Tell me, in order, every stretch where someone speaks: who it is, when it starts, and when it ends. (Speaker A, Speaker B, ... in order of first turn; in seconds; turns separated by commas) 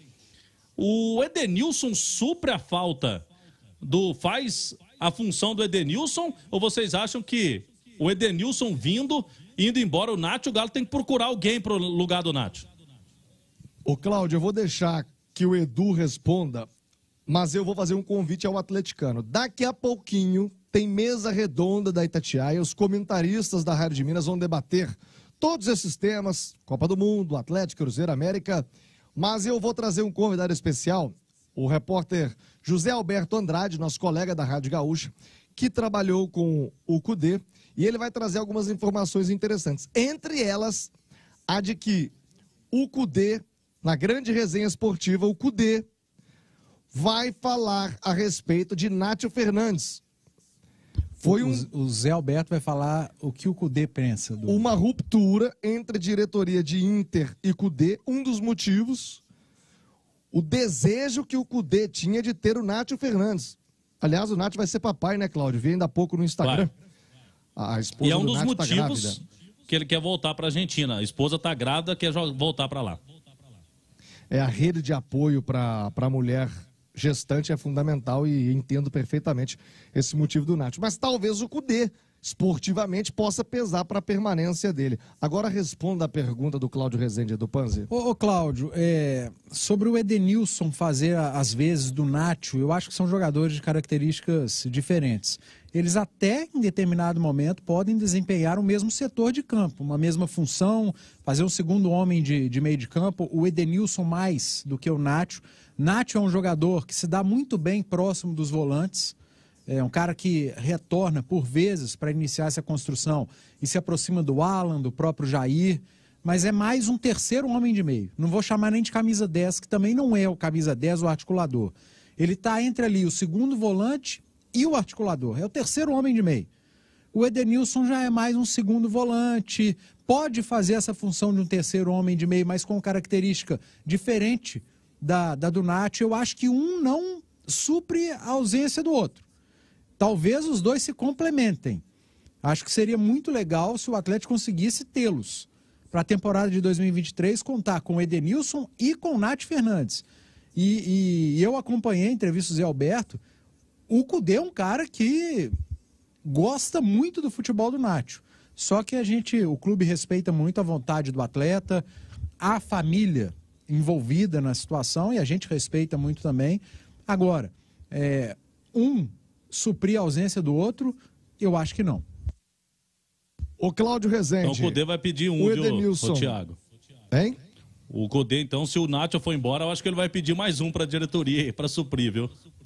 Speaker A: 0.8-3.3, Speaker A: 3.8-12.7, Speaker B: 13.8-16.7, Speaker B: 17.3-40.9, Speaker B: 41.5-42.1, Speaker B: 42.7-45.9, Speaker B: 46.9-50.0, Speaker C: 51.2-54.7, Speaker B: 51.2-51.7, Speaker B: 54.5-59.2, Speaker B: 60.3-66.7, Speaker A: 66.4-66.7, Speaker B: 67.5-69.2, Speaker A: 68.0-73.0, Speaker B: 74.3-87.9, Speaker C: 87.9-109.1, Speaker C: 109.7-126.5, Speaker C: 127.1-139.2, Speaker C: 140.0-141.8, Speaker C: 142.4-153.2, Speaker C: 153.9-155.5, Speaker C: 156.2-161.8, Speaker C: 162.4-172.0, Speaker B: 173.6-174.8, Speaker A: 174.4-176.6, Speaker B: 175.4-176.4, Speaker B: 177.1-177.4, Speaker A: 177.9-182.3